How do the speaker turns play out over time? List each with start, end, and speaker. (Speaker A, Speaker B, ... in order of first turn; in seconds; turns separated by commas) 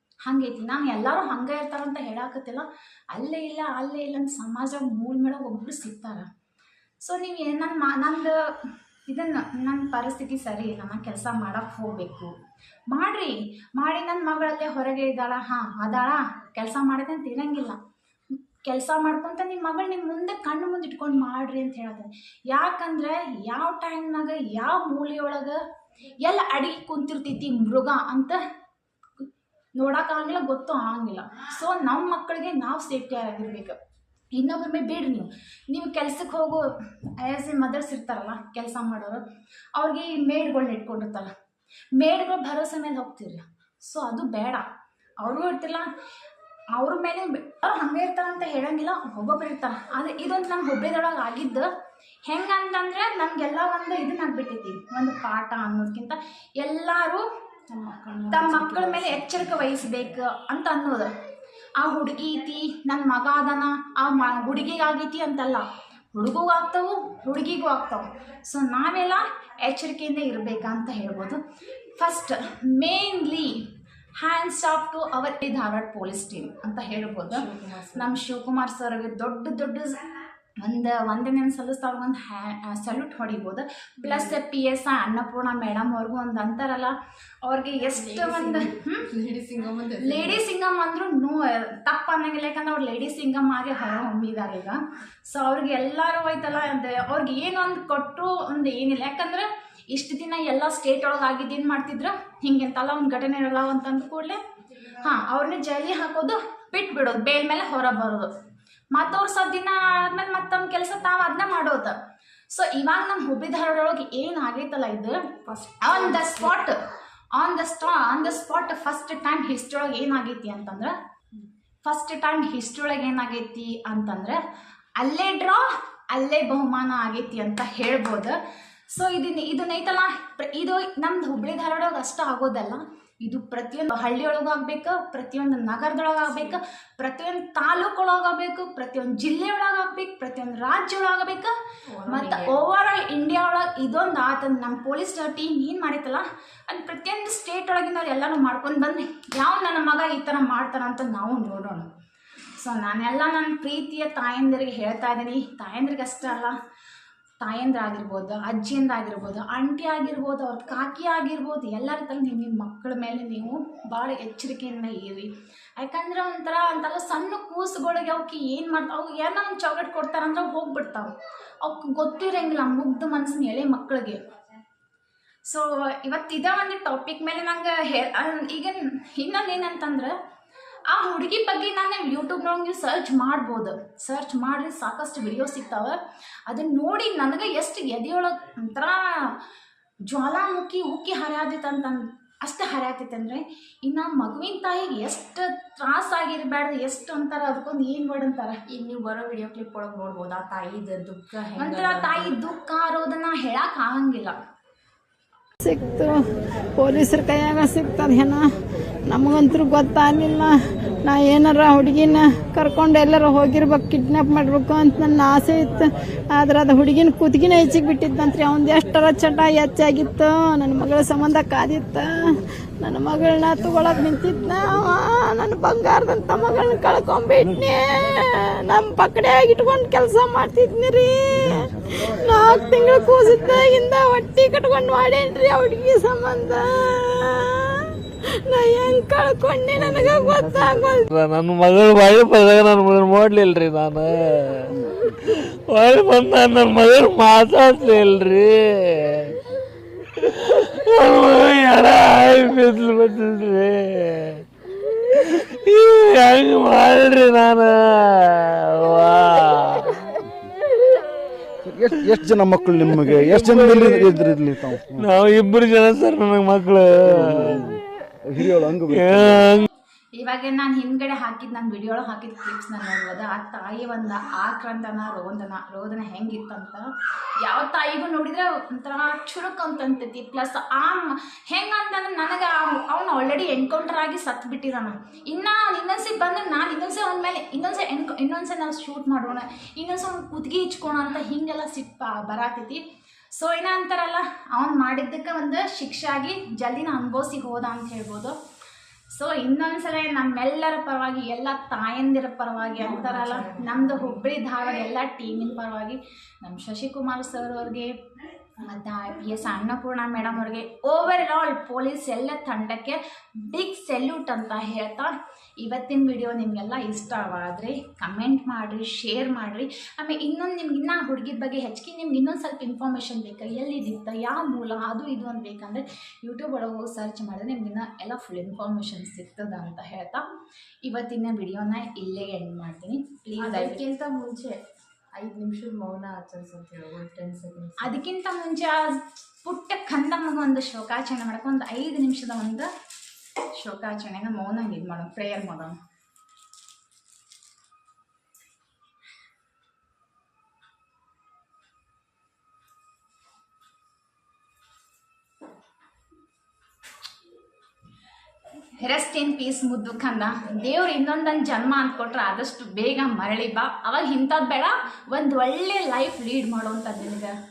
Speaker A: 0.3-6.2, Speaker A: 7.0-8.4, Speaker A: 9.1-12.3, Speaker A: 12.9-17.8, Speaker A: 18.6-25.6, Speaker A: 26.2-28.4, Speaker A: 29.8-33.8, Speaker A: 34.3-39.2, Speaker A: 39.8-41.3, Speaker A: 42.0-44.6, Speaker A: 45.2-45.9, Speaker A: 46.8-51.7, Speaker A: 52.3-57.2, Speaker B: 57.7-59.4, Speaker A: 58.3-61.1, Speaker A: 61.8-71.4, Speaker A: 72.0-73.6, Speaker A: 74.2-77.4, Speaker B: 77.3-78.2, Speaker A: 78.0-80.0, Speaker A: 80.6-89.0, Speaker B: 84.0-84.4, Speaker B: 87.9-90.4, Speaker A: 90.0-104.4, Speaker A: 105.0-108.3, Speaker A: 108.9-111.9, Speaker A: 112.5-115.2, Speaker B: 115.5-116.5, Speaker A: 115.8-116.8, Speaker A: 117.4-120.9, Speaker A: 121.8-124.4, Speaker A: 125.0-128.4, Speaker A: 128.9-141.5, Speaker B: 141.9-142.6, Speaker A: 142.1-151.8, Speaker A: 152.6-156.5, Speaker A: 157.4-171.1, Speaker A: 171.6-174.2, Speaker A: 175.4-180.1, Speaker A: 180.9-189.4, Speaker A: 190.1-198.6, Speaker B: 198.7-202.3, Speaker A: 201.6-204.4, Speaker C: 205.6-206.2, Speaker C: 206.8-208.5, Speaker C: 209.1-241.1, Speaker D: 241.1-249.4, Speaker D: 250.2-254.4, Speaker D: 255.2-260.0, Speaker E: 261.6-265.1, Speaker D: 263.1-264.2, Speaker D: 265.0-267.8, Speaker E: 267.1-269.5, Speaker D: 268.9-269.7, Speaker A: 270.1-276.9, Speaker A: 277.4-292.8, Speaker A: 293.3-298.4, Speaker A: 299.1-308.0, Speaker B: 302.8-304.2, Speaker A: 308.6-330.2, Speaker A: 330.9-333.8, Speaker B: 333.4-334.6, Speaker B: 335.1-337.9, Speaker A: 337.8-342.7, Speaker A: 343.6-345.8, Speaker A: 358.8-367.3